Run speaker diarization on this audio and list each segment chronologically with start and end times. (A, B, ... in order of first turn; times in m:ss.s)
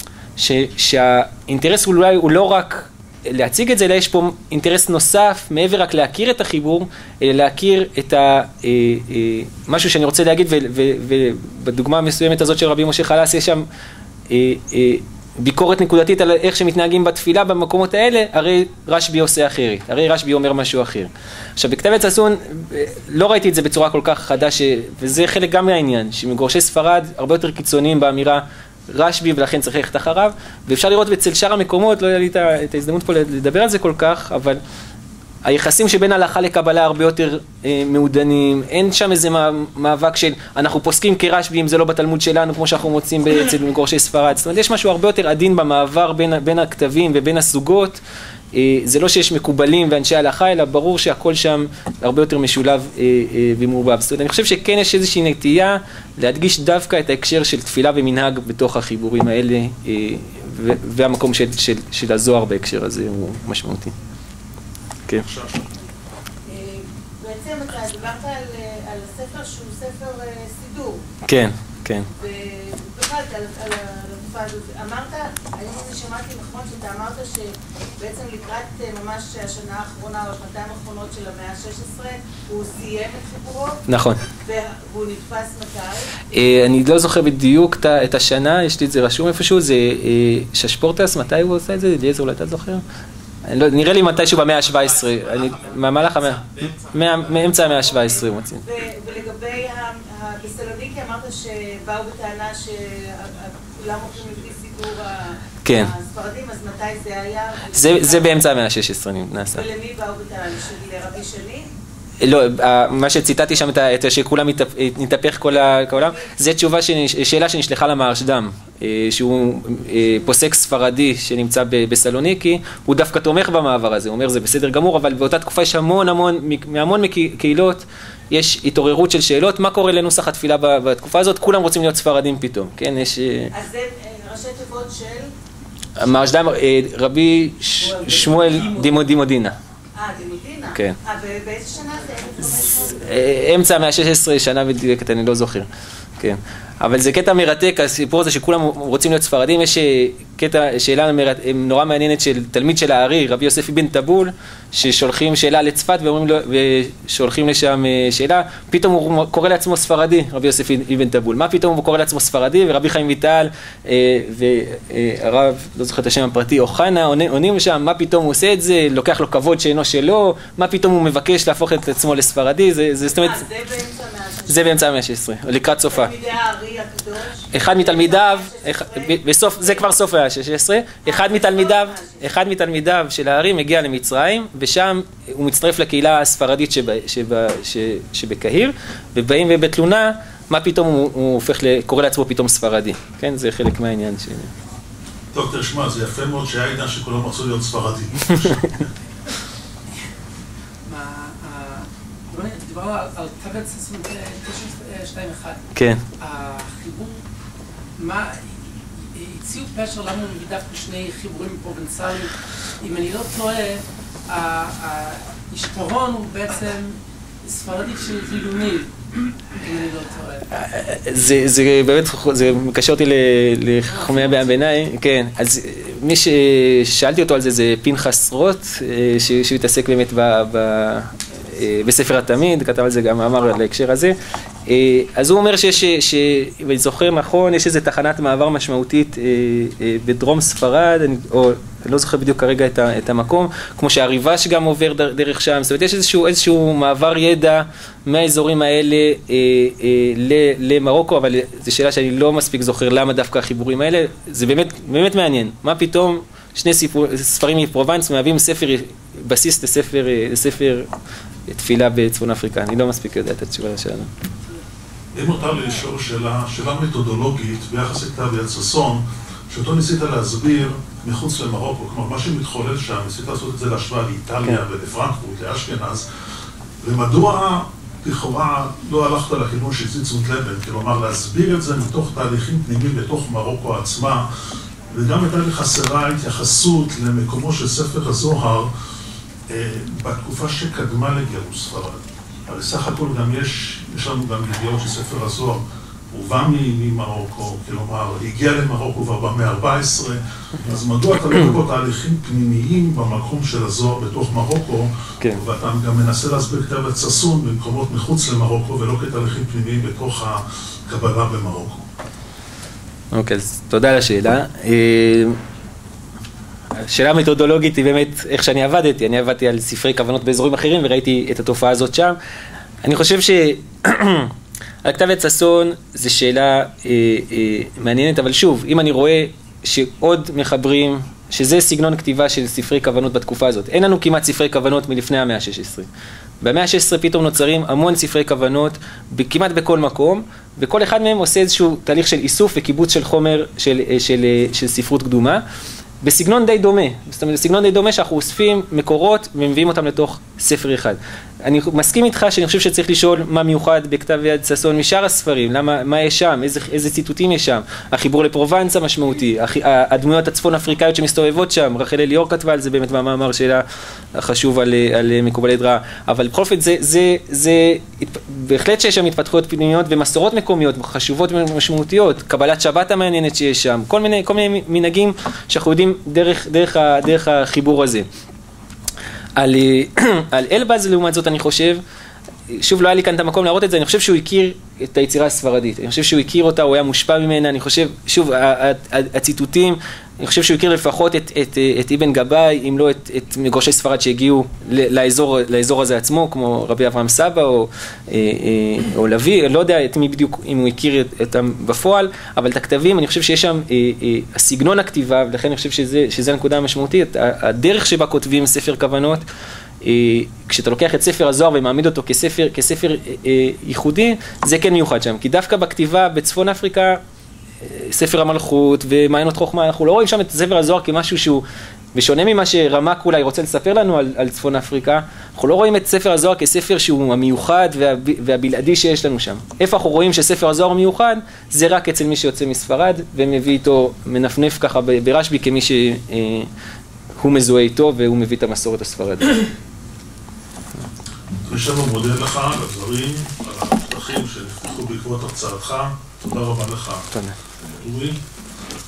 0:00.4-0:13.7 A
0:14.3-0:34.6 A
0:35.4-0:48.0 A
0:48.5-1:03.9 A
1:05.2-1:05.7 B
1:06.5-1:11.0 C
1:11.2-1:12.1 A
1:12.1-1:26.1 C
1:23.9-1:24.2 A
1:26.3-1:32.8 A
1:33.4-1:38.6 A
1:37.4-1:48.4 C
1:45.6-1:45.9 A
1:47.7-1:49.6 A
1:49.5-1:51.7 C
1:52.2-2:13.5 A
2:13.5-2:15.3 C
2:16.0-2:19.6 A
2:20.0-2:23.1 C
2:22.9-2:25.7 A
2:26.2-2:53.4 A
2:53.1-2:54.9 C
2:54.5-2:56.1 A
2:55.9-2:59.9 C
2:57.5-3:14.5 A
3:01.0-3:02.2 C
3:15.3-3:18.9 B
3:20.9-3:25.6 D
3:25.8-3:26.0 A
3:26.2-3:27.2 D
3:28.0-3:39.0 D
3:39.6-3:40.5 D
3:40.5-4:20.9 A
3:43.9-3:44.6 D
4:21.5-4:24.1 A
4:25.2-4:36.1 B
4:36.8-4:44.3 B
4:44.9-4:48.7 B
4:49.5-5:11.9 B
5:13.1-5:15.4 A
5:16.8-5:22.2 A
5:22.8-5:35.9 A
5:36.4-5:45.4 A
5:46.0-6:18.1 A
6:19.4-6:21.8 A
6:22.5-6:49.2 A
6:49.8-6:57.0 A
6:57.6-7:16.5 A
7:17.2-7:19.5 A
7:21.4-7:28.2 B
7:27.1-7:27.4 A